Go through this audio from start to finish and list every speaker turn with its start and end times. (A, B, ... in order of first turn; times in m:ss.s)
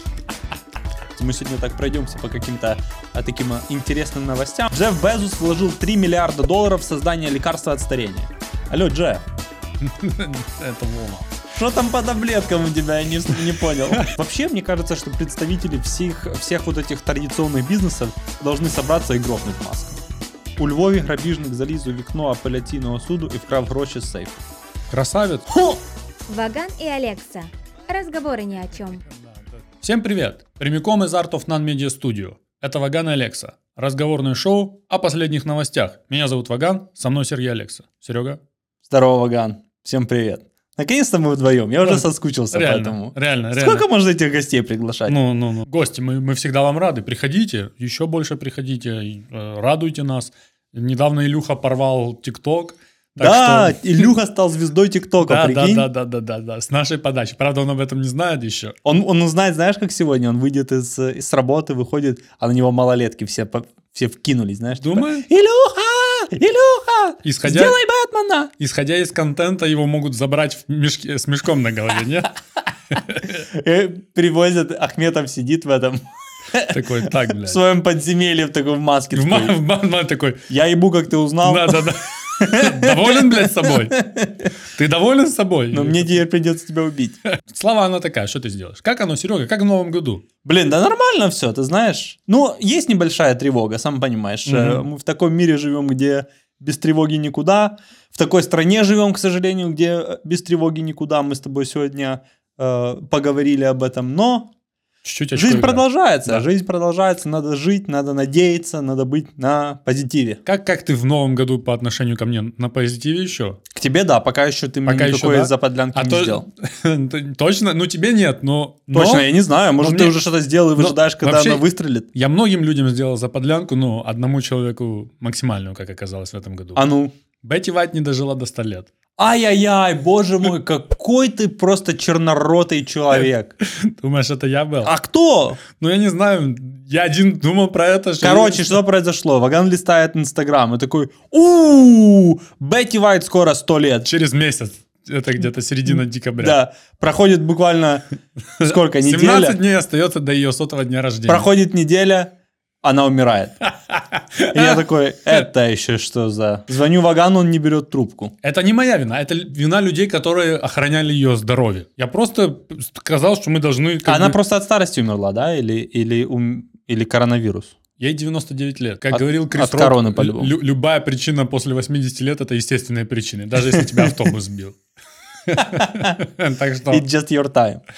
0:01.1-0:09.2 A
0:09.8-0:11.4 B
0:11.5-0:20.0 A
0:20.6-0:24.4 A
0:24.9-0:25.8 B
0:26.3-0:29.0 C
0:29.8-0:38.4 B
0:38.9-0:45.2 A
0:41.8-0:43.8 B
0:45.1-0:54.1 B
0:53.2-0:55.9 A
0:55.2-0:58.8 B
0:58.8-1:08.5 A
1:04.8-1:05.3 B
1:07.2-1:07.8 B
1:08.6-1:12.4 B
1:12.9-1:13.4 B
1:13.4-1:19.6 A
1:16.6-1:17.6 B
1:19.1-1:20.5 B
1:20.5-1:24.5 A
1:21.4-1:24.0 B
1:24.6-1:26.2 B
1:25.7-1:27.2 A
1:27.3-1:30.2 B
1:30.4-1:44.5 A
1:34.5-1:34.8 B
1:45.0-1:46.4 B
1:45.3-1:50.4 A
1:50.4-1:53.6 B
1:53.7-1:56.4 A
1:54.8-1:59.2 B
1:58.9-2:02.1 A
1:59.8-2:00.2 B
2:00.8-2:01.6 B
2:02.1-2:06.9 B
2:06.8-2:07.1 A
2:07.4-2:08.9 B
2:09.2-2:13.5 A
2:13.6-2:14.9 B
2:14.8-2:15.6 A
2:15.6-2:18.8 B
2:18.2-2:24.1 A
2:24.0-2:26.6 B
2:26.4-2:28.0 A
2:28.6-2:31.5 B
2:28.6-2:29.6 A
2:31.3-2:32.3 A
2:32.8-2:33.6 A
2:33.9-2:34.8 B
2:34.5-2:38.3 A
2:38.4-2:44.4 B
2:44.0-2:47.8 A
2:48.0-2:54.8 B
2:49.1-2:50.5 A
2:53.7-2:54.1 A
2:55.5-2:57.0 B
2:55.6-2:56.1 A
2:56.9-2:57.8 A